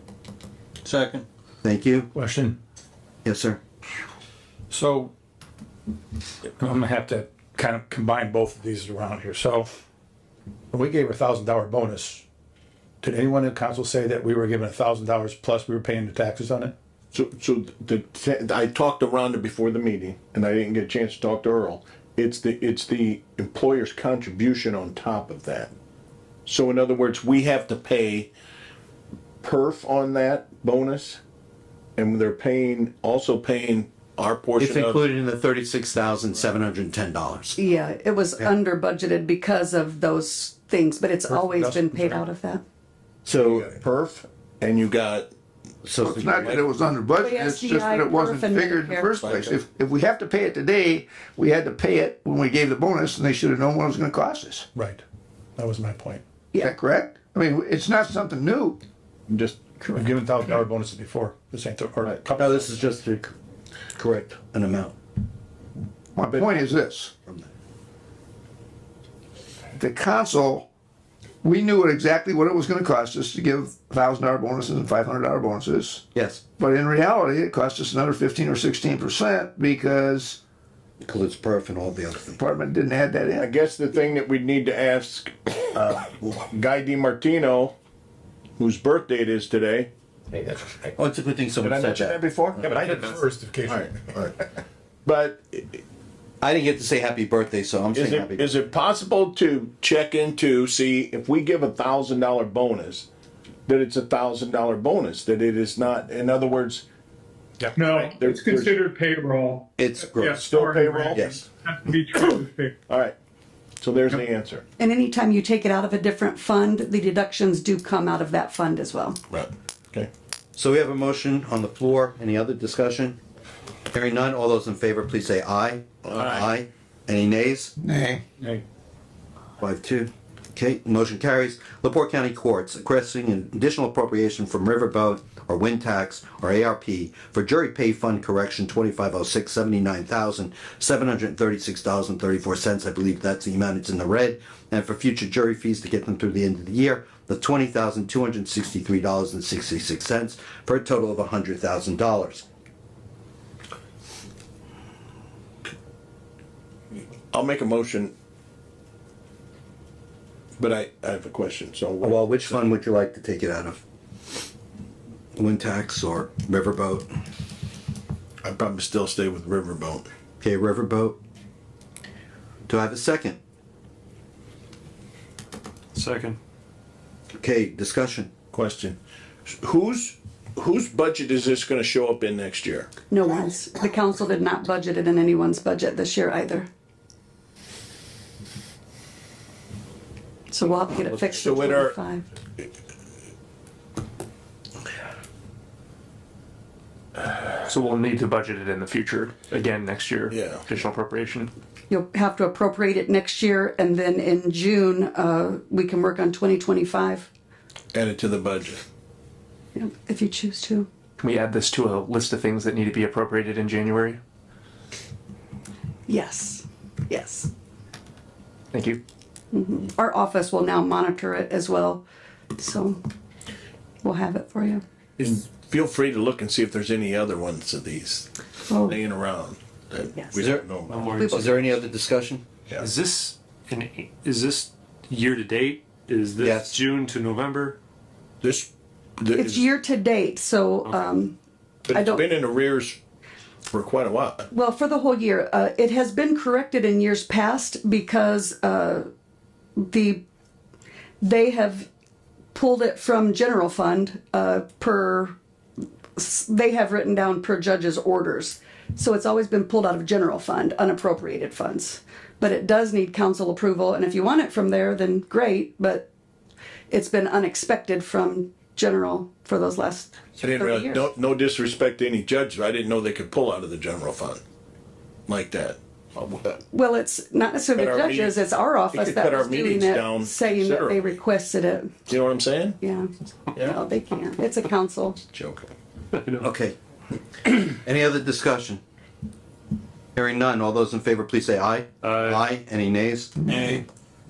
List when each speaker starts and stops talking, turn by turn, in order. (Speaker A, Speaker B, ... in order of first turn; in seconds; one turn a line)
Speaker A: 1.6-2.1
Speaker B: 2.1-2.6
Speaker A: 3.2-3.6
Speaker B: 4.7-5.1
Speaker B: 6.6-9.7
Speaker B: 10.7-12.2
Speaker B: 13.0-16.7
Speaker C: 17.1-25.7
Speaker C: 26.5-28.3
Speaker C: 29.4-31.2
Speaker C: 32.0-35.0
Speaker A: 34.6-37.6
Speaker D: 37.6-42.6
Speaker B: 41.3-42.2
Speaker A: 43.3-43.7
Speaker C: 43.3-45.3
Speaker A: 45.8-46.7
Speaker E: 46.0-54.7
Speaker D: 47.2-49.3
Speaker C: 49.3-49.5
Speaker B: 54.8-55.0
Speaker B: 55.6-56.2
Speaker E: 56.6-58.8
Speaker C: 59.3-59.6
Speaker B: 59.9-62.6
Speaker A: 62.3-63.3
Speaker A: 64.0-65.0
Speaker E: 66.2-67.1
Speaker E: 69.8-70.7
Speaker E: 71.4-76.0
Speaker A: 76.2-76.4
Speaker E: 76.6-80.4
Speaker A: 81.0-82.4
Speaker E: 82.4-83.5
Speaker C: 83.4-87.7
Speaker C: 88.6-89.9
Speaker A: 90.4-92.2
Speaker C: 91.6-92.8
Speaker B: 92.7-93.6
Speaker C: 93.7-94.3
Speaker C: 95.0-95.8
Speaker A: 96.4-98.5
Speaker C: 98.0-103.1
Speaker C: 103.7-106.8
Speaker B: 107.6-108.1
Speaker F: 107.8-112.7
Speaker C: 108.1-108.8
Speaker A: 109.8-110.4
Speaker C: 110.3-111.4
Speaker A: 111.1-111.4
Speaker C: 112.9-113.2
Speaker C: 113.8-114.6
Speaker D: 114.8-119.2
Speaker C: 119.3-120.1
Speaker A: 120.6-123.2
Speaker A: 123.9-127.7
Speaker C: 126.0-126.5
Speaker E: 127.8-128.2
Speaker A: 129.6-152.4
Speaker C: 157.3-158.1
Speaker C: 160.6-162.6
Speaker A: 162.0-163.8
Speaker A: 165.4-167.1
Speaker C: 168.4-170.1
Speaker A: 170.4-171.2
Speaker A: 172.7-173.4
Speaker G: 175.9-176.4
Speaker A: 177.4-178.3
Speaker C: 178.5-179.0
Speaker C: 179.5-182.9
Speaker D: 183.1-186.7
Speaker D: 190.5-192.2
Speaker C: 191.1-191.9
Speaker H: 197.6-201.5
Speaker C: 200.3-200.6
Speaker D: 201.9-207.3
Speaker C: 207.9-208.8
Speaker D: 209.8-210.9
Speaker H: 211.2-214.2
Speaker D: 216.1-217.5
Speaker H: 218.7-219.0
Speaker D: 219.5-222.0
Speaker D: 222.6-223.0
Speaker D: 224.0-224.8
Speaker C: 225.2-228.3
Speaker D: 228.7-229.0
Speaker C: 228.8-231.2
Speaker D: 230.2-230.4
Speaker A: 230.4-232.4
Speaker G: 230.9-231.8
Speaker D: 231.1-231.6
Speaker G: 232.8-237.8
Speaker A: 236.4-236.8
Speaker C: 238.4-238.7
Speaker C: 239.2-239.7
Speaker D: 239.3-241.4
Speaker G: 240.8-241.2
Speaker C: 241.9-243.0
Speaker D: 241.9-242.3
Speaker C: 243.7-244.4
Speaker D: 244.5-249.1
Speaker D: 249.8-250.2
Speaker D: 251.2-251.9
Speaker D: 252.5-255.3
Speaker D: 256.2-266.1
Speaker D: 266.9-271.1
Speaker C: 270.4-274.4
Speaker C: 275.3-276.6
Speaker D: 276.7-281.9
Speaker C: 277.8-281.1
Speaker C: 282.1-282.8
Speaker D: 282.8-285.2
Speaker C: 285.4-285.7
Speaker G: 286.1-286.5
Speaker A: 286.4-286.8
Speaker A: 287.4-288.8
Speaker A: 290.1-293.4
Speaker G: 292.0-292.4